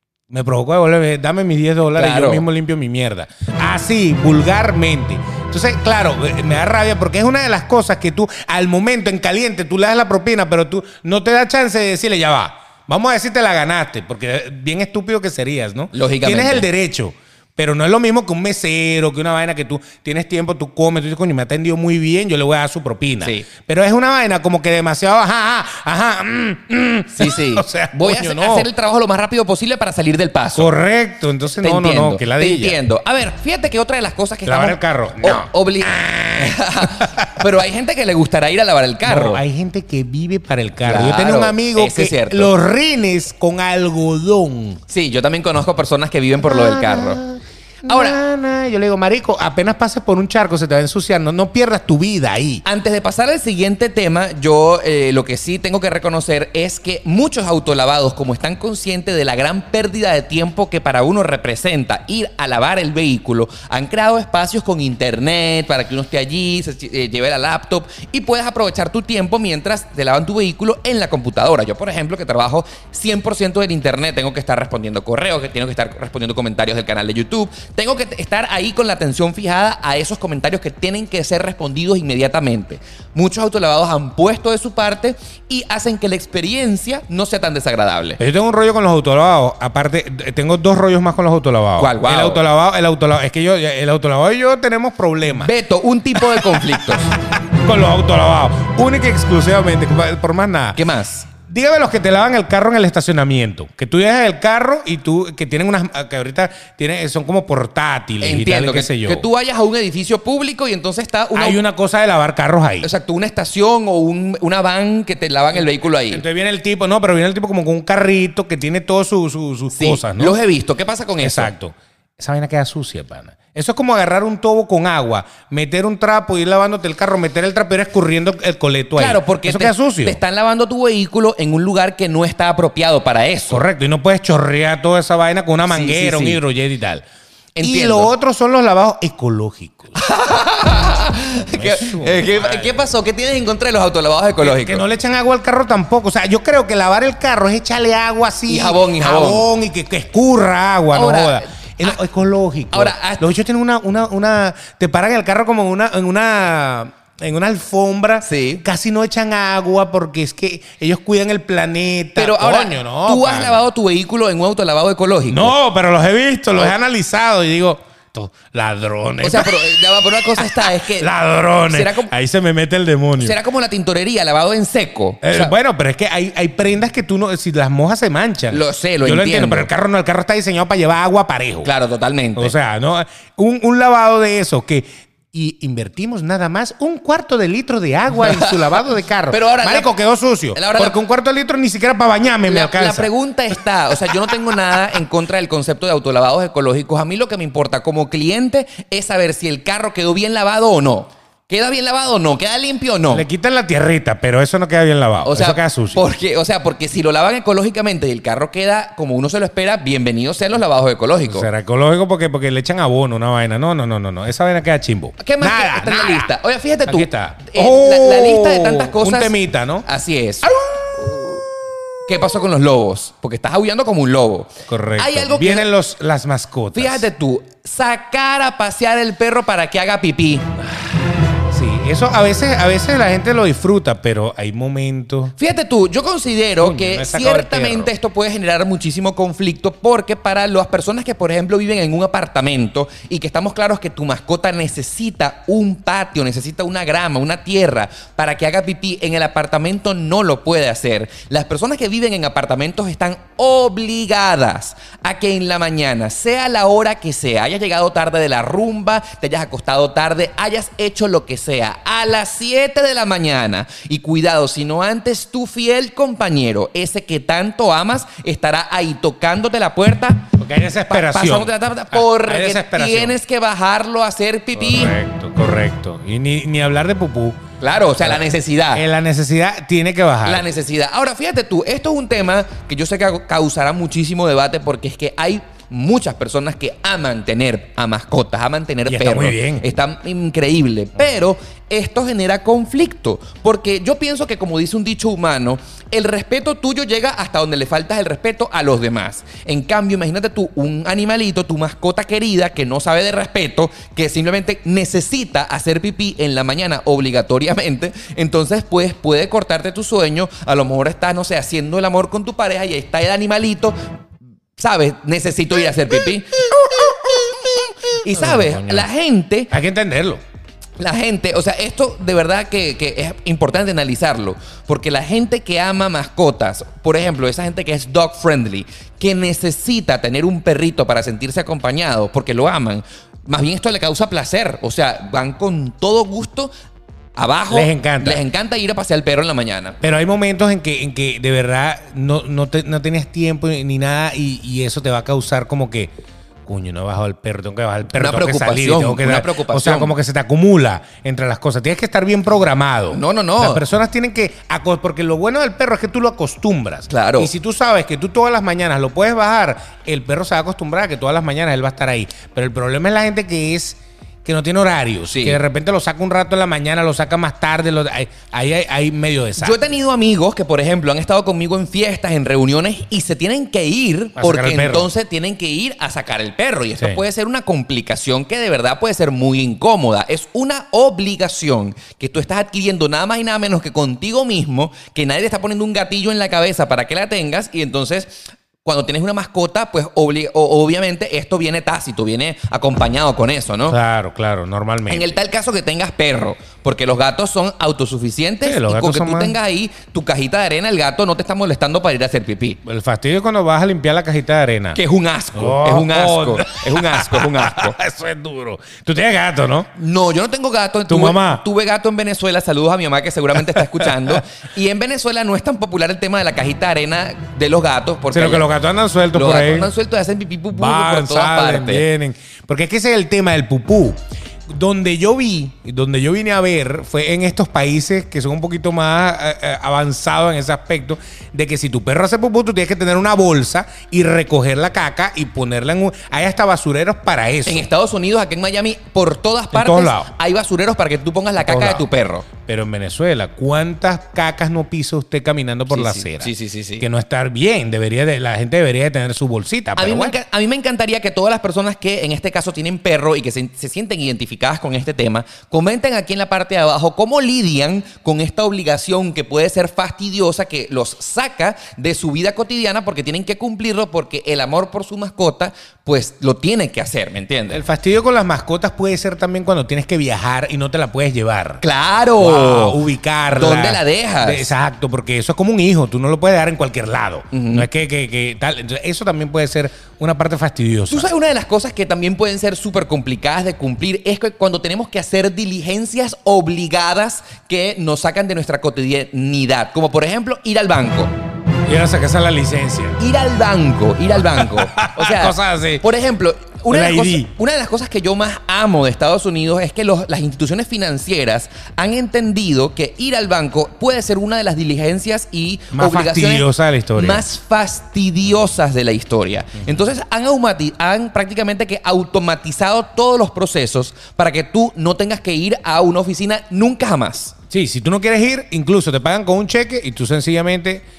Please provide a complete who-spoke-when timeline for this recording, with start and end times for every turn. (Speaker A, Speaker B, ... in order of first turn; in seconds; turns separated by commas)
Speaker A: 0.3-28.7, Speaker B: 2.0-2.5, Speaker B: 15.9-16.7, Speaker B: 27.1-30.7, Speaker A: 30.6-32.8, Speaker B: 31.6-39.4, Speaker A: 34.5-37.5, Speaker A: 39.0-44.8, Speaker B: 40.8-42.5, Speaker B: 44.9-47.2, Speaker A: 46.4-52.6, Speaker B: 47.9-48.2, Speaker B: 52.6-88.2, Speaker A: 88.2-95.5, Speaker B: 91.8-92.4, Speaker B: 95.3-97.1, Speaker A: 96.2-100.8, Speaker B: 100.8-101.3, Speaker A: 101.4-109.2, Speaker B: 108.2-111.6, Speaker A: 111.3-112.9, Speaker B: 112.8-116.2, Speaker A: 116.1-120.4, Speaker B: 119.7-121.5, Speaker A: 121.2-130.2, Speaker B: 129.0-133.7, Speaker A: 133.5-137.0, Speaker B: 135.7-136.4, Speaker B: 137.6-138.1, Speaker A: 137.6-140.0, Speaker B: 139.9-144.8, Speaker A: 141.5-142.8, Speaker A: 144.4-163.7, Speaker B: 148.5-149.5, Speaker B: 150.9-152.0, Speaker B: 152.7-153.3, Speaker B: 158.2-158.6, Speaker B: 162.2-165.5, Speaker A: 165.3-173.4, Speaker B: 169.2-171.1, Speaker B: 171.7-172.1, Speaker B: 173.2-175.5, Speaker A: 175.2-181.7, Speaker B: 178.5-179.7, Speaker B: 181.6-182.5, Speaker A: 182.4-193.1, Speaker B: 188.2-188.6, Speaker B: 189.3-189.9, Speaker B: 190.5-191.0, Speaker B: 192.4-203.2, Speaker A: 194.1-194.4, Speaker A: 203.1-206.0, Speaker B: 205.2-211.5, Speaker A: 211.3-216.3, Speaker B: 215.2-221.3, Speaker A: 216.9-219.9, Speaker B: 222.1-225.7, Speaker A: 224.7-227.1, Speaker B: 226.7-230.5, Speaker A: 230.7-235.3, Speaker B: 235.4-270.3, Speaker A: 236.6-237.9, Speaker A: 270.4-273.2, Speaker B: 270.9-274.9, Speaker A: 274.6-277.4, Speaker B: 277.6-278.9, Speaker A: 278.0-280.5, Speaker B: 280.2-313.8, Speaker A: 288.9-289.6, Speaker B: 314.6-319.5, Speaker A: 318.1-318.9, Speaker A: 319.5-320.2, Speaker B: 320.8-336.5, Speaker B: 337.2-339.8, Speaker A: 337.5-338.2, Speaker A: 339.8-345.9, Speaker A: 346.4-369.6, Speaker B: 347.9-349.9, Speaker B: 352.9-353.6, Speaker B: 356.9-357.3, Speaker B: 365.1-365.4, Speaker B: 369.4-393.8, Speaker A: 374.2-374.9, Speaker A: 393.7-395.2, Speaker B: 394.9-402.6, Speaker A: 398.4-399.4, Speaker A: 402.6-404.8, Speaker B: 404.8-407.8, Speaker A: 405.4-409.7, Speaker B: 409.8-418.5, Speaker A: 410.9-411.4, Speaker A: 413.4-414.2, Speaker A: 418.1-419.7, Speaker B: 419.1-421.8, Speaker A: 420.5-424.0, Speaker A: 424.5-437.7, Speaker B: 437.5-442.3, Speaker A: 439.5-440.1, Speaker A: 441.4-441.9, Speaker A: 442.4-450.2, Speaker B: 445.7-446.9, Speaker B: 449.8-467.6, Speaker A: 467.5-471.6, Speaker B: 471.6-472.8, Speaker A: 472.2-481.1, Speaker B: 473.3-474.5, Speaker B: 477.3-477.7, Speaker B: 480.9-491.1, Speaker A: 491.7-493.0, Speaker B: 493.0-517.4, Speaker A: 494.2-495.8, Speaker A: 496.7-497.3, Speaker A: 505.7-507.2, Speaker A: 517.5-520.8